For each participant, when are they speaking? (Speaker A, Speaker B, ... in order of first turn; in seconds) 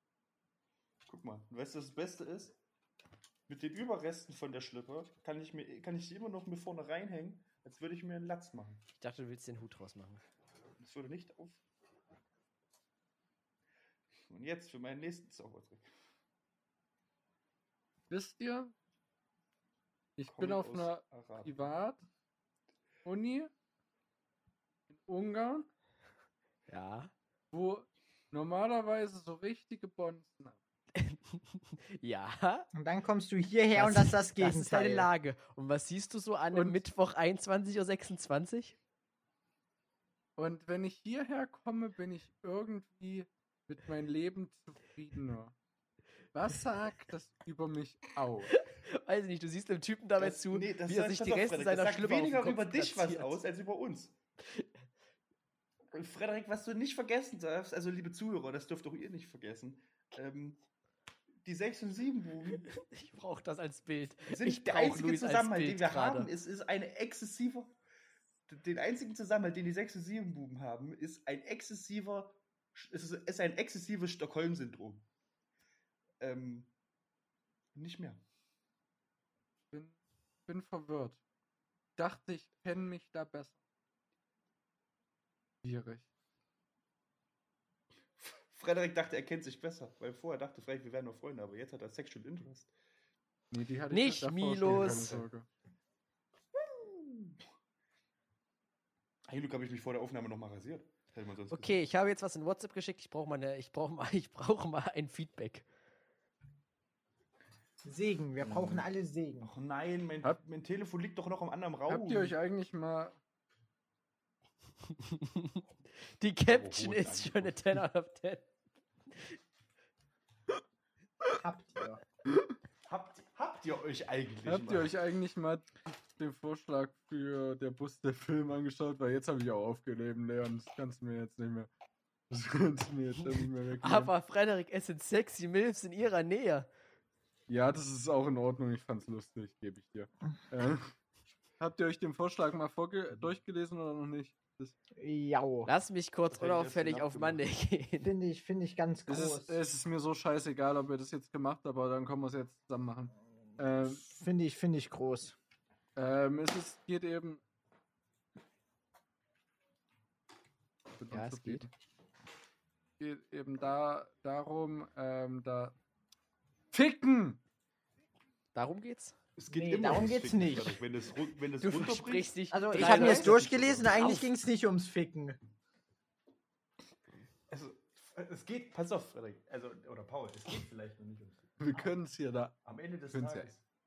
Speaker A: 1.1-2.6, 3.5-8.8, 10.8-11.6, 14.3-15.8, 20.3-21.5, 50.2-54.1, 55.9-60.6, 61.4-62.7, 64.3-67.7, 68.5-75.0, 76.2-76.7, 77.7-78.2, 88.2-92.7, 94.6-95.2, 96.6-97.4, 99.3-101.9, 108.4-108.8, 109.4-112.3, 116.5-117.8, 122.9-124.9, 146.3-147.4, 169.3-174.2, 177.5-181.9, 182.6-183.6
Speaker B: 9.0-10.2, 26.7-27.1, 30.9-32.7, 33.7-38.8, 48.5-53.4, 62.5-66.3, 93.9-95.2, 101.5-105.6, 115.0-115.6, 116.2-118.5, 133.8-136.7, 145.7-148.1, 161.1-161.7, 168.5-169.2, 171.6-174.2
Speaker C: 18.1-18.7, 20.2-22.0, 23.0-23.5, 24.9-25.7, 27.5-30.6, 36.5-36.8, 40.4-45.5, 46.3-48.5, 80.5-81.2, 82.0-83.5, 85.6-86.0, 93.5-95.5, 111.9-113.2, 124.4-131.7, 132.3-134.1, 137.5-140.9, 141.6-144.7, 149.1-154.0, 155.9-157.4, 161.0-161.7, 163.0-165.7, 166.7-167.4, 181.6-182.5, 183.1-183.5
Speaker D: 32.7-35.1, 107.8-109.5, 121.4-122.0, 145.0-145.7, 148.0-149.6, 153.8-155.3, 169.5-170.8, 172.5-175.4